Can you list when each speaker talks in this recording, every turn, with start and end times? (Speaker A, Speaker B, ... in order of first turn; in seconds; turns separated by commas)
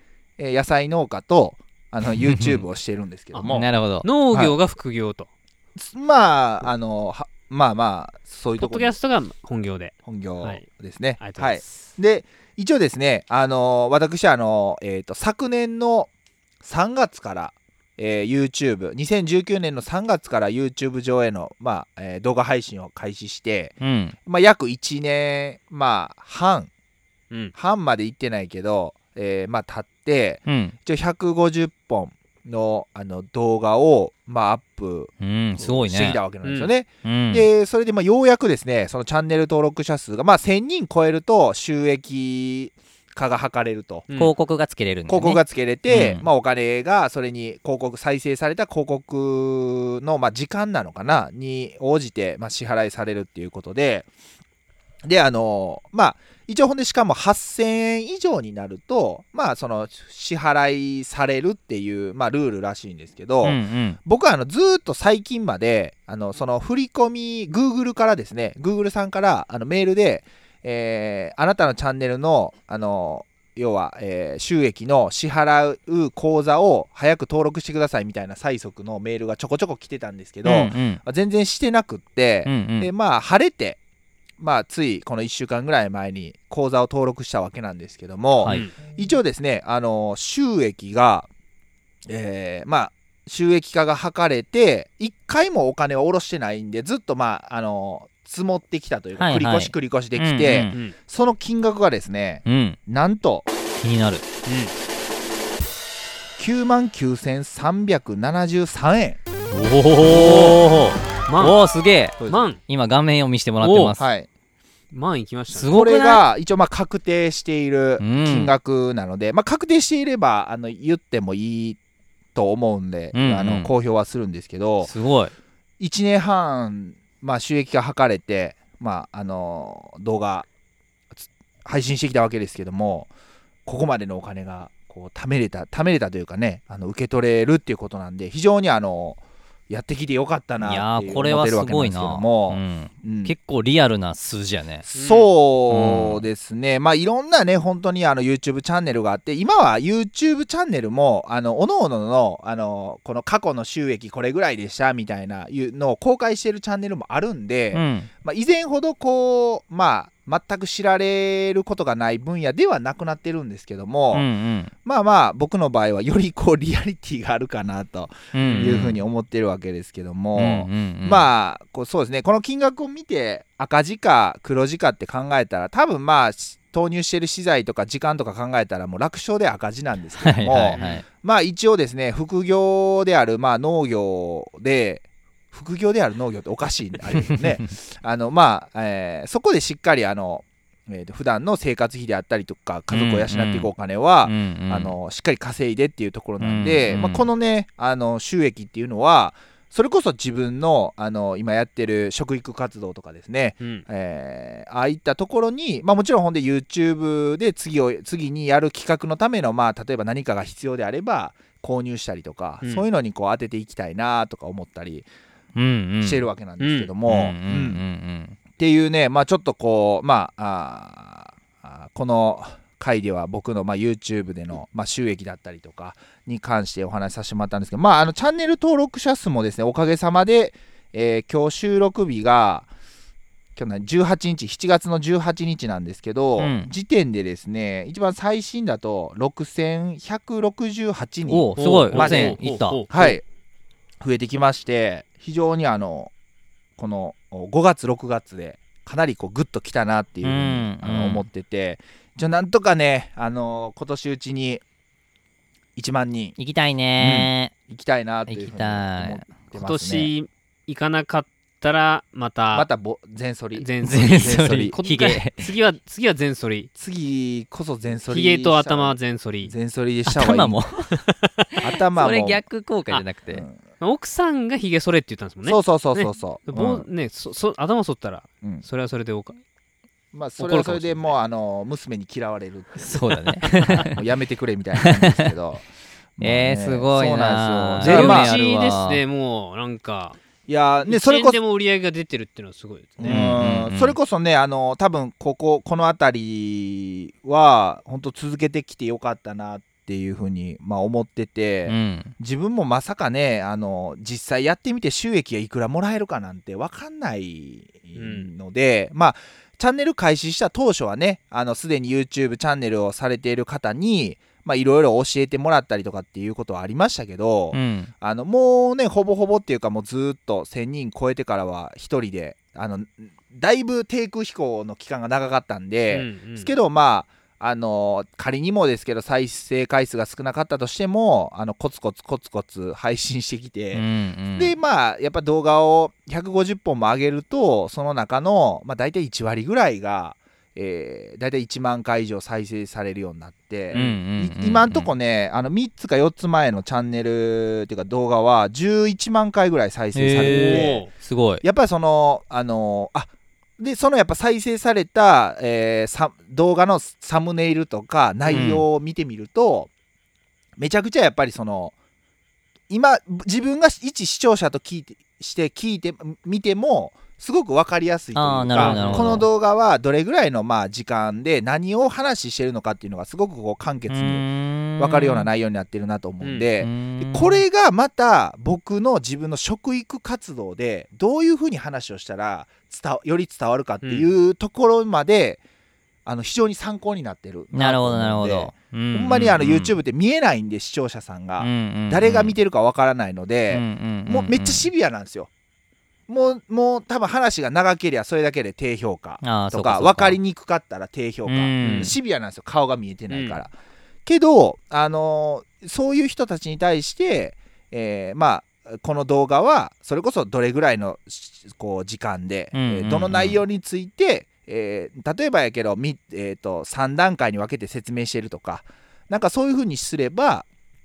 Speaker A: 0.4-3.7, Speaker B: 2.2-2.6, Speaker C: 3.3-5.3, Speaker B: 3.5-4.1, Speaker A: 5.8-8.9, Speaker C: 8.6-10.6, Speaker A: 10.1-16.1, Speaker C: 11.2-11.9, Speaker A: 16.6-26.7, Speaker B: 23.8-24.2, Speaker A: 27.6-44.1, Speaker B: 30.5-30.7, Speaker B: 35.2-36.2, Speaker C: 36.4-36.7, Speaker B: 37.0-37.5, Speaker B: 44.1-46.3, Speaker A: 45.1-54.1, Speaker A: 55.0-83.8, Speaker B: 63.4-64.0, Speaker B: 80.4-81.0, Speaker B: 82.5-82.9, Speaker A: 84.4-91.3, Speaker B: 88.4-88.7, Speaker C: 88.5-88.7, Speaker A: 92.1-103.5, Speaker B: 99.2-100.8, Speaker B: 102.5-102.8, Speaker B: 103.8-104.2, Speaker C: 104.5-104.7, Speaker A: 106.4-109.2, Speaker B: 109.5-114.1, Speaker C: 110.1-110.6, Speaker C: 111.3-111.6, Speaker C: 112.3-112.6, Speaker C: 113.6-114.0, Speaker A: 114.0-114.3, Speaker C: 114.9-115.8, Speaker B: 115.5-116.2, Speaker A: 115.7-121.8, Speaker B: 118.0-118.5, Speaker A: 122.3-124.9, Speaker B: 123.1-123.7, Speaker B: 124.8-125.3, Speaker A: 125.8-130.5, Speaker A: 131.1-133.1, Speaker A: 133.7-143.3, Speaker B: 140.6-144.9, Speaker A: 144.9-164.3, Speaker C: 144.9-145.3, Speaker B: 145.7-146.3, Speaker B: 157.7-158.1, Speaker B: 164.1-164.7, Speaker A: 164.8-215.1, Speaker B: 168.3-169.0, Speaker C: 168.4-168.7, Speaker B: 170.3-171.3, Speaker B: 180.2-181.0, Speaker C: 180.7-181.0, Speaker B: 187.3-187.6, Speaker B: 192.9-193.7, Speaker B: 194.2-194.9, Speaker B: 196.4-197.3, Speaker B: 215.6-216.3, Speaker A: 216.0-217.8, Speaker C: 216.6-216.9, Speaker B: 217.1-218.4, Speaker A: 218.6-232.7, Speaker A: 233.6-243.2, Speaker B: 236.4-236.7, Speaker B: 241.3-242.8, Speaker C: 241.6-243.2, Speaker A: 244.0-246.1, Speaker A: 246.8-254.6, Speaker B: 250.2-251.3, Speaker A: 255.8-256.4, Speaker B: 256.4-257.5, Speaker A: 257.0-260.1, Speaker B: 258.3-259.3, Speaker C: 259.6-262.7, Speaker A: 262.5-264.7, Speaker C: 263.6-266.7, Speaker B: 263.8-265.5, Speaker A: 266.8-270.6, Speaker C: 268.1-269.5, Speaker B: 270.1-270.9, Speaker A: 271.6-272.4, Speaker B: 271.9-273.4, Speaker A: 273.3-273.6, Speaker C: 273.8-279.4, Speaker A: 275.4-276.9, Speaker A: 280.1-283.1, Speaker C: 280.4-281.1, Speaker B: 282.8-283.9, Speaker A: 283.7-285.7, Speaker B: 284.8-285.3, Speaker A: 286.2-288.3, Speaker B: 286.2-289.0, Speaker C: 287.8-290.2, Speaker A: 290.5-291.4, Speaker C: 290.8-293.3, Speaker A: 293.0-350.9, Speaker B: 293.1-293.9, Speaker B: 301.7-302.1, Speaker C: 307.9-308.3, Speaker B: 317.5-317.9, Speaker C: 325.9-326.5, Speaker B: 333.7-334.5, Speaker C: 343.7-344.0, Speaker B: 343.7-344.9, Speaker B: 349.9-351.4, Speaker C: 350.2-350.9, Speaker A: 351.4-359.7, Speaker B: 358.3-358.6, Speaker A: 360.6-361.7, Speaker A: 362.7-374.2, Speaker B: 368.1-369.3, Speaker C: 368.6-369.2, Speaker B: 373.9-375.3, Speaker A: 374.8-385.4, Speaker C: 376.2-376.5, Speaker B: 376.6-377.4, Speaker C: 383.8-384.1, Speaker A: 386.1-395.3, Speaker B: 387.5-389.7, Speaker B: 391.4-392.4, Speaker B: 393.5-394.7, Speaker A: 396.1-403.5, Speaker B: 399.2-400.2, Speaker B: 401.3-401.9, Speaker C: 401.6-401.9, Speaker C: 403.1-403.4, Speaker A: 404.1-420.4, Speaker B: 412.5-413.4